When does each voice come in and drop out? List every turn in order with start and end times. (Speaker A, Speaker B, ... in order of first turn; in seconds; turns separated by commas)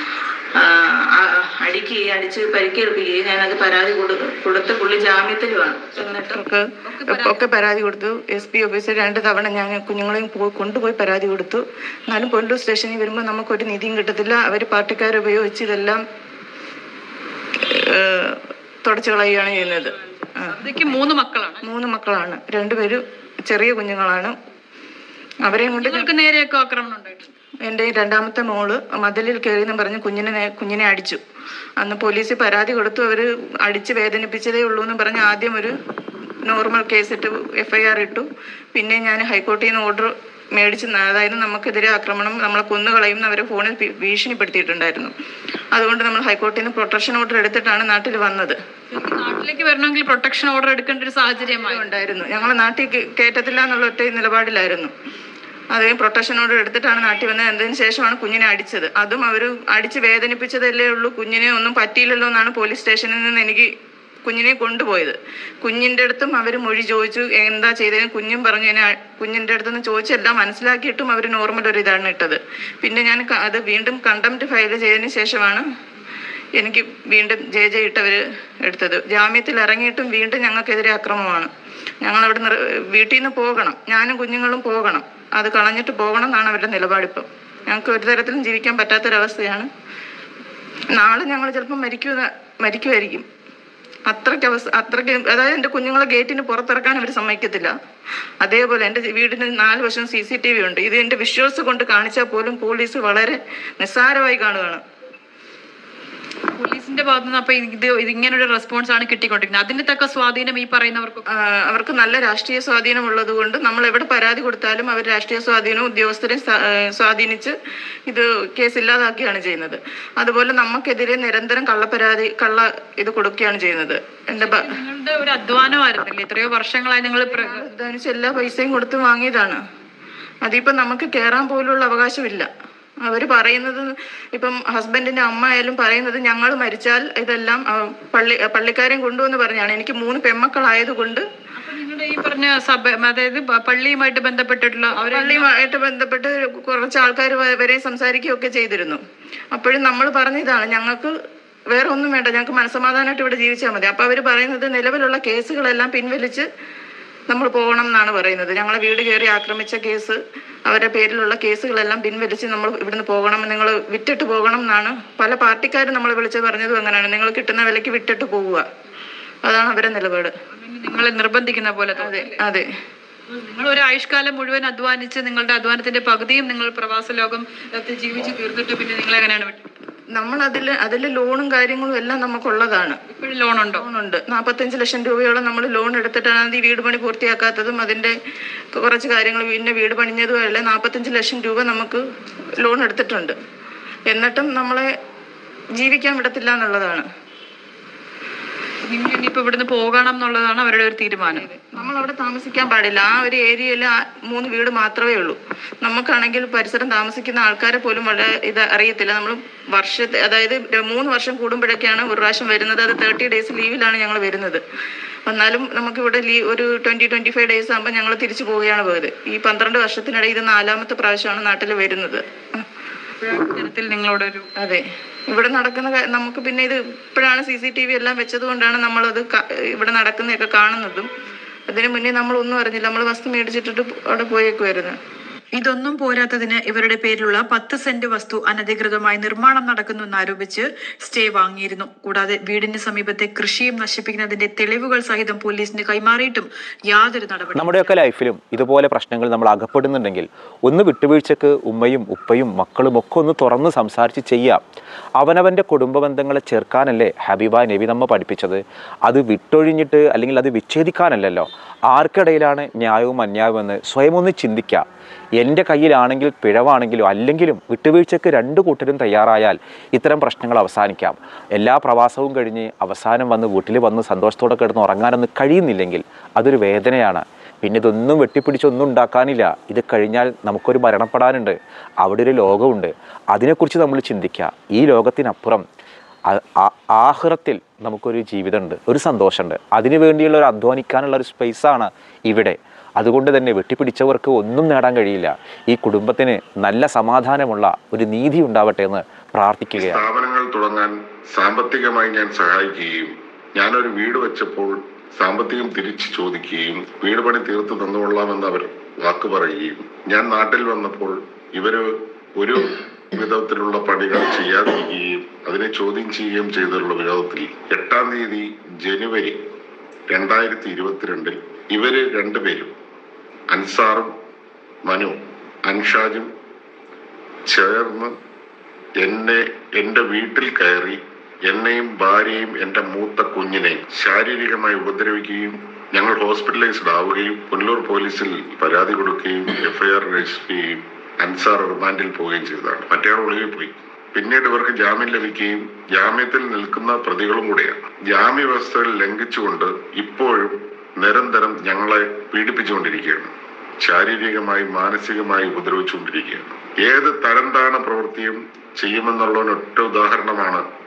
Speaker A: 0.6-16.0, Speaker B: 6.8-7.4, Speaker A: 17.6-20.9, Speaker B: 20.5-21.6, Speaker A: 21.6-24.3, Speaker A: 25.4-26.1, Speaker B: 25.7-27.3, Speaker A: 27.6-31.2, Speaker A: 31.8-35.7, Speaker A: 36.5-45.1, Speaker A: 45.7-48.5, Speaker B: 48.9-51.9, Speaker A: 51.4-54.9, Speaker A: 55.7-63.7, Speaker A: 64.2-75.6, Speaker A: 76.6-81.5, Speaker A: 82.0-89.7, Speaker A: 90.9-93.2, Speaker A: 94.0-97.7, Speaker A: 98.4-104.8, Speaker B: 106.6-111.2, Speaker A: 111.3-117.5, Speaker A: 118.1-124.7, Speaker B: 124.3-127.7, Speaker A: 127.3-129.6, Speaker A: 130.4-132.5, Speaker A: 133.0-141.2, Speaker B: 141.6-145.6, Speaker A: 145.0-149.0, Speaker A: 149.5-151.1, Speaker A: 151.7-156.4, Speaker A: 157.3-168.6, Speaker A: 169.4-170.3, Speaker B: 170.5-172.4, Speaker A: 172.0-172.7, Speaker B: 173.3-179.6, Speaker A: 180.1-183.0, Speaker B: 183.1-183.8, Speaker A: 183.7-188.1, Speaker A: 188.7-192.0, Speaker A: 192.6-193.3, Speaker A: 194.1-194.9, Speaker A: 195.8-197.0, Speaker B: 198.8-201.4, Speaker A: 201.3-214.6, Speaker A: 215.3-222.6, Speaker B: 223.2-224.5, Speaker A: 224.6-231.1, Speaker A: 231.7-234.9, Speaker C: 235.6-247.7, Speaker D: 247.5-254.6, Speaker D: 255.2-264.8, Speaker D: 265.4-285.6, Speaker D: 286.3-300.1, Speaker E: 299.8-319.4, Speaker E: 320.1-322.7, Speaker E: 323.5-324.1, Speaker E: 324.8-326.3, Speaker E: 327.5-328.1, Speaker E: 329.0-360.6